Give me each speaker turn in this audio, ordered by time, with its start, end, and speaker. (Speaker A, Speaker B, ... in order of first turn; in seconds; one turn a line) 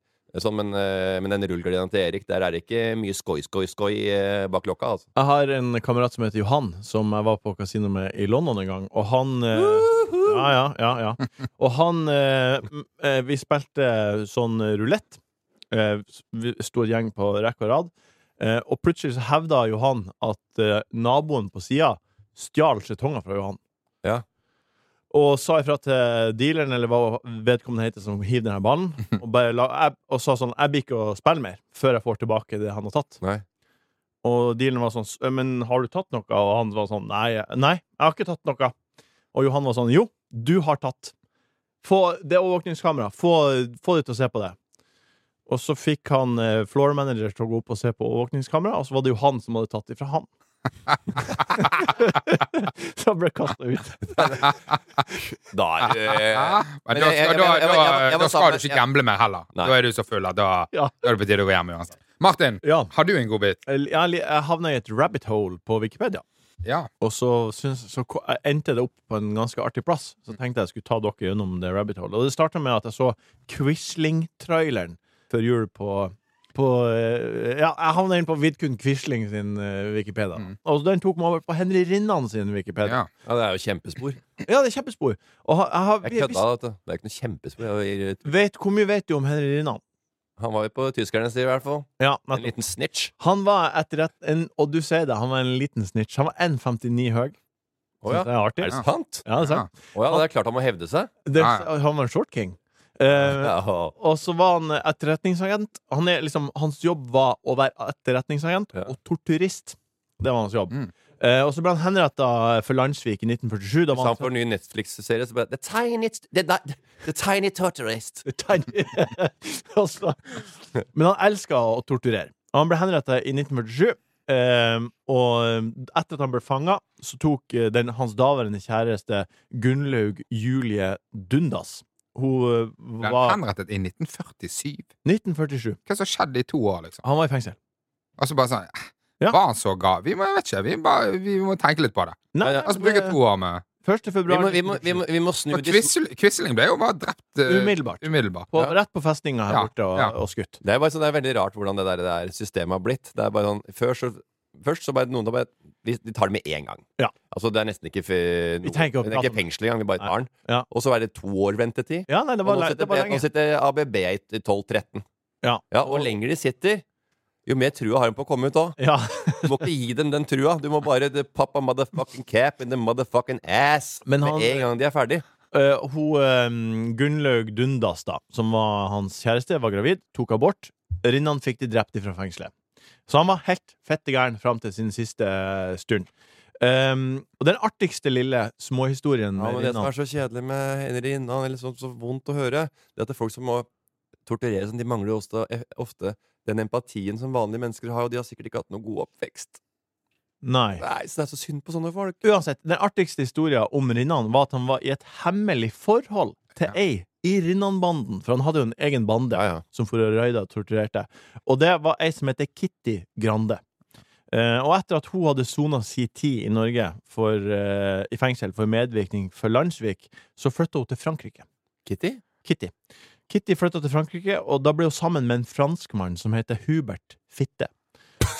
Speaker A: 0.3-5.1
Speaker B: 5.2-15.2
Speaker A: 9.6-10.4
Speaker B: 15.7-23.6
Speaker B: 25.1-33.2
Speaker B: 34.2-38.7
Speaker B: 39.3-41.1
Speaker B: 41.8-44.5
Speaker B: 45.5-50.3
Speaker B: 51.5-54.5
Speaker A: 55.5-58.8
Speaker C: 56.1-63.6
Speaker B: 62.6-62.9
Speaker B: 63.6-66.2
Speaker C: 66.6-66.9
Speaker B: 67.0-83.0
Speaker A: 83.2-84.2
Speaker B: 84.5-86.4
Speaker A: 86.0-88.3
Speaker B: 88.2-89.8
Speaker A: 90.4-93.1
Speaker B: 92.0-92.5
Speaker B: 93.2-97.3
Speaker A: 98.0-99.2
Speaker B: 98.1-100.2
Speaker C: 99.4-99.7
Speaker A: 99.9-101.1
Speaker B: 101.2-114.3
Speaker C: 101.3-101.7
Speaker A: 103.3-103.9
Speaker A: 113.9-118.2
Speaker B: 118.2-133.4
Speaker C: 133.0-134.9
Speaker B: 135.0-135.8
Speaker C: 135.9-137.0
Speaker B: 137.0-137.6
Speaker C: 138.2-143.6
Speaker B: 142.3-143.2
Speaker B: 143.8-145.0
Speaker A: 144.3-145.9
Speaker C: 145.5-148.5
Speaker B: 147.5-150.6
Speaker C: 149.5-150.1
Speaker A: 150.6-165.0
Speaker B: 158.6-159.4
Speaker B: 160.0-160.7
Speaker B: 162.1-163.2
Speaker B: 165.4-166.1
Speaker A: 165.7-166.8
Speaker A: 167.4-168.8
Speaker B: 168.8-169.6
Speaker A: 169.4-175.2
Speaker B: 174.1-174.7
Speaker B: 175.5-182.5
Speaker B: 183.1-186.1
Speaker B: 186.6-189.9
Speaker A: 189.4-193.7
Speaker A: 194.2-199.6
Speaker B: 200.4-200.8
Speaker A: 200.8-202.2
Speaker B: 202.2-213.6
Speaker A: 209.3-209.6
Speaker B: 214.3-221.4
Speaker A: 221.8-222.2
Speaker B: 222.4-222.7
Speaker B: 223.3-227.7